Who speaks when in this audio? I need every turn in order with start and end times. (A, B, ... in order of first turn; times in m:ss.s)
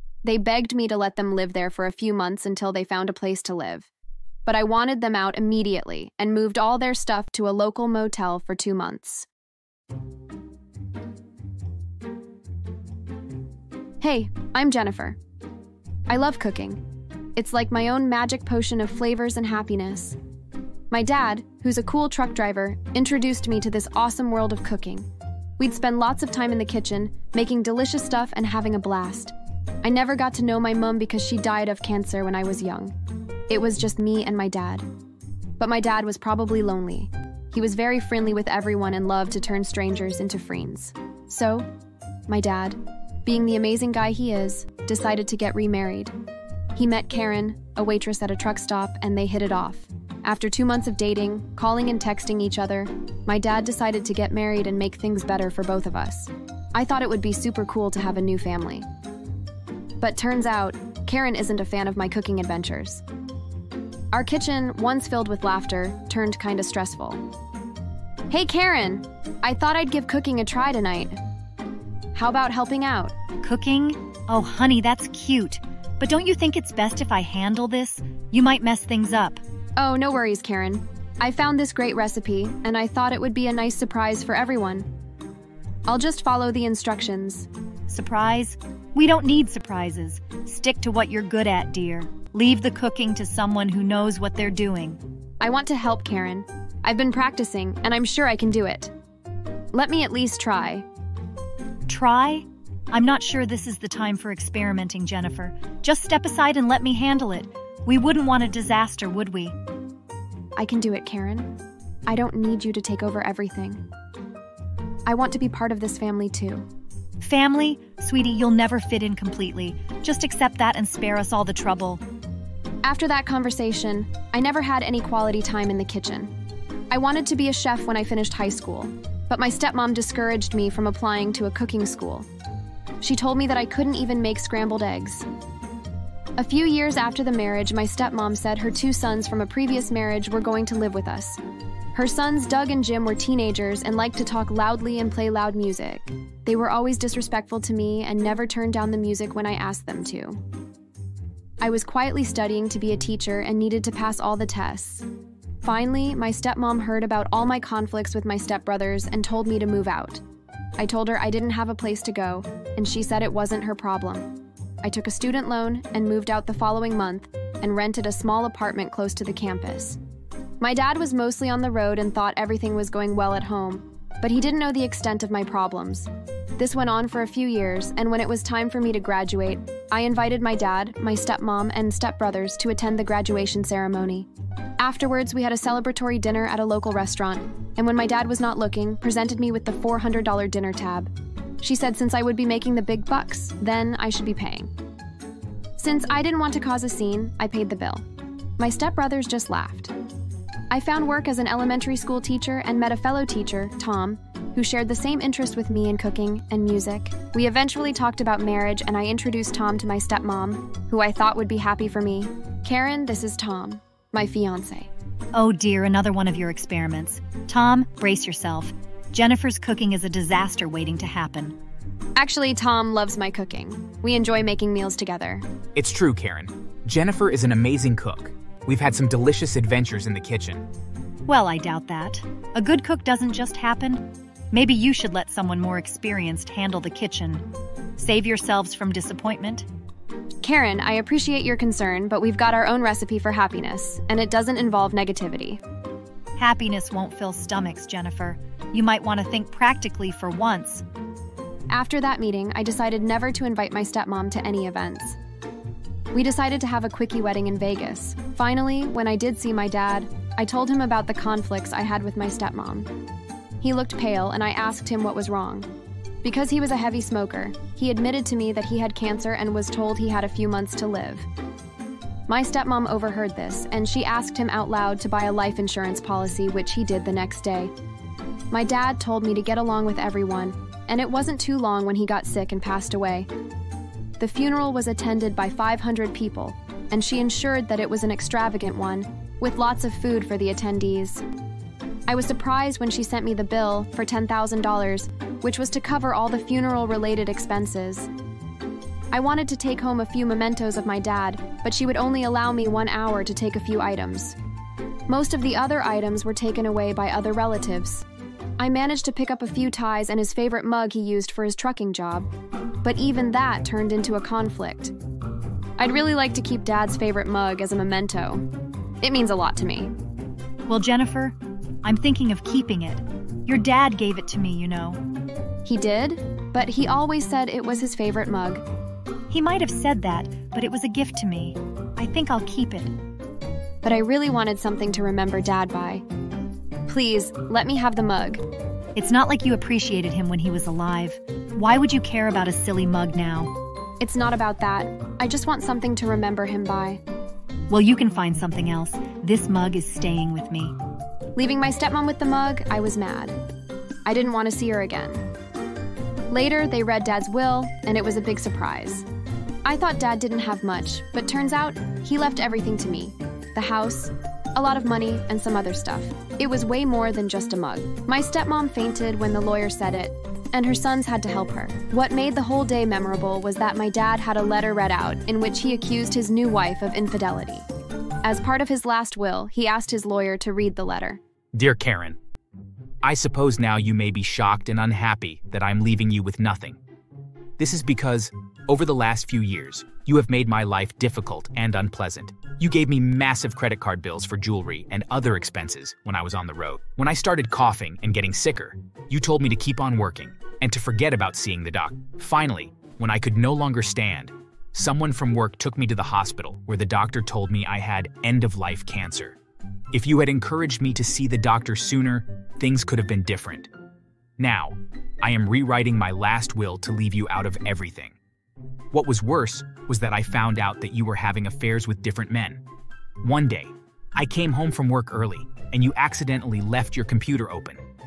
0:00.2-0:03.9 A
0:04.5-0:09.3 A
0:14.0-0:15.2 A
0:16.1-0:16.8 A
0:17.4-0:20.2 A
0:20.9-0:25.1 A
0:25.6-0:32.9 A
0:33.5-0:34.9 A
0:35.6-0:41.7 A
0:42.3-0:46.1 A
0:46.8-0:58.9 A
1:00.0-1:03.0 A
1:04.1-1:07.2 A
1:08.3-1:11.2 A
1:12.2-1:13.1 A
1:13.4-1:19.4 B
1:19.8-1:24.9 A
1:25.9-1:27.5 A
1:27.9-1:35.0 B
1:35.4-1:38.9 A
1:39.7-1:40.9 A
1:41.9-1:49.6 B
1:50.6-1:51.5 A
1:52.1-1:53.8 A
1:55.1-1:56.7 A
1:57.2-2:02.0 B
2:02.8-2:06.3 A
2:06.9-2:12.3 A
2:13.0-2:15.3 A
2:16.4-2:21.4 A
2:21.9-2:30.4 A
2:31.6-2:35.0 A
2:35.6-2:40.2 A
2:40.8-2:44.3 A
2:44.8-2:50.0 A
2:50.6-3:04.3 A
3:04.8-3:14.7 A
3:15.8-3:18.0 A
3:18.6-3:19.9 A
3:20.7-3:34.9 A
3:35.3-3:41.6 B
3:42.2-3:45.5 A
3:45.8-3:50.7 C
3:51.3-3:57.4 B
3:58.0-3:59.7 B
4:00.4-4:05.6 A
4:06.4-4:10.8 B
4:11.7-4:15.2 A
4:16.1-4:22.9 A
4:23.6-4:25.7 A
4:26.2-4:31.3 A
4:32.3-4:37.7 A
4:38.5-4:43.3 A
4:44.2-4:51.2 A
4:52.1-4:58.1 A
4:59.1-5:04.4 A
5:05.1-5:08.0 A
5:08.6-5:12.3 A
5:12.8-5:14.9 A
5:15.8-5:18.5 A
5:19.0-5:19.9 A
5:20.7-5:25.0 B
5:25.6-5:28.6 A
5:29.3-5:33.0 B
5:33.8-5:36.0 A
5:36.9-5:38.4 A
5:39.0-5:43.5 B
5:44.0-5:47.0 A
5:47.7-5:50.8 B
5:51.4-5:53.4 A
5:54.1-5:55.2 A
5:56.3-5:59.1 A
5:59.6-6:17.7 A
6:18.2-6:21.2 A
6:21.5-6:22.2 C
6:23.0-6:26.8 C
6:27.6-6:49.4 C
6:49.9-6:53.7 C
6:54.4-6:58.2 C
6:58.9-7:02.6 C
7:03.2-7:07.8 C